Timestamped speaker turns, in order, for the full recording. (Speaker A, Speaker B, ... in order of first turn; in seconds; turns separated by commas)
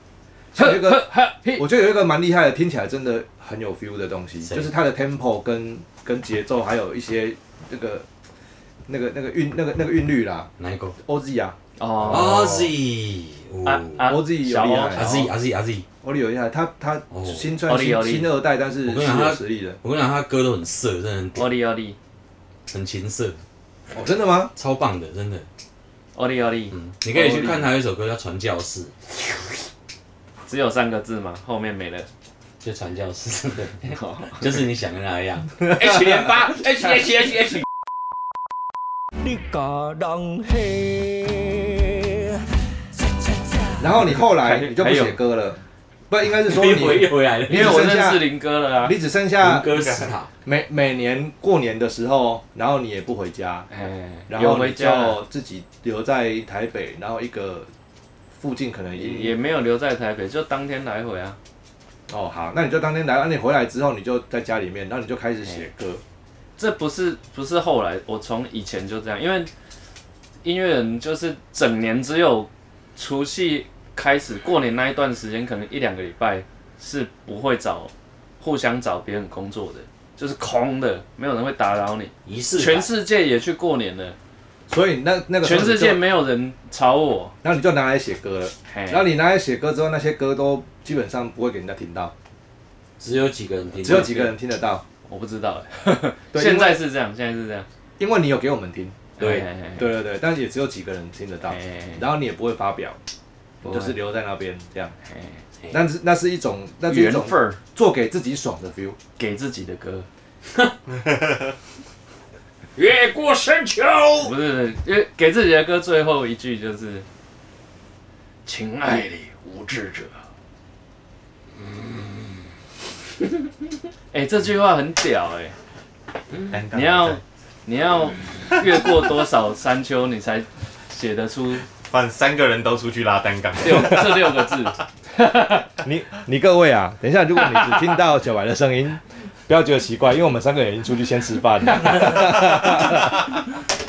Speaker A: 0.5-8.1, Speaker B: 0.6-1.6, Speaker C: 4.5-4.7, Speaker A: 8.9-11.6, Speaker C: 10.6-11.0, Speaker B: 11.8-12.7, Speaker C: 12.1-14.2, Speaker B: 13.7-15.0, Speaker A: 14.0-15.3, Speaker C: 14.9-15.9, Speaker A: 16.0-19.8, Speaker C: 17.1-17.5, Speaker B: 17.7-18.3, Speaker C: 18.9-21.5, Speaker B: 21.4-22.0, Speaker C: 22.7-23.4, Speaker A: 23.9-24.5, Speaker C: 24.6-25.5, Speaker B: 26.1-27.7, Speaker C: 26.7-28.9, Speaker B: 30.5-32.1, Speaker C: 32.6-37.7, Speaker B: 33.8-34.6, Speaker A: 43.8-48.3, Speaker B: 44.1-45.2, Speaker C: 46.3-47.9, Speaker B: 47.5-49.0, Speaker A: 48.8-49.7, Speaker C: 49.4-50.3, Speaker D: 49.7-50.1, Speaker A: 50.5-53.7, Speaker B: 53.7-55.2, Speaker A: 54.3-57.7, Speaker A: 58.4-59.3, Speaker B: 59.0-61.4, Speaker A: 62.1-66.0, Speaker B: 66.6-69.5, Speaker B: 70.4-84.2, Speaker C: 82.2-82.9, Speaker A: 84.7-86.0, Speaker B: 85.4-87.3, Speaker A: 87.4-92.1, Speaker B: 88.7-89.1, Speaker C: 93.0-94.2, Speaker A: 93.8-94.8, Speaker B: 93.8-94.3, Speaker B: 95.1-97.7, Speaker A: 96.3-96.8, Speaker A: 98.0-99.1, Speaker B: 99.2-99.9, Speaker C: 99.2-99.5, Speaker A: 99.8-103.0, Speaker B: 101.5-102.0, Speaker B: 103.6-104.0, Speaker A: 103.6-104.9, Speaker B: 105.1-105.4, Speaker A: 105.7-109.0, Speaker B: 106.9-107.6, Speaker B: 109.2-110.1, Speaker D: 110.9-111.5, Speaker C: 112.8-114.3, Speaker B: 114.2-117.0, Speaker B: 118.5-120.2, Speaker B: 124.1-125.5, Speaker D: 126.5-127.2, Speaker B: 126.7-131.6, Speaker D: 131.8-134.7, Speaker B: 133.6-135.7, Speaker A: 135.8-143.2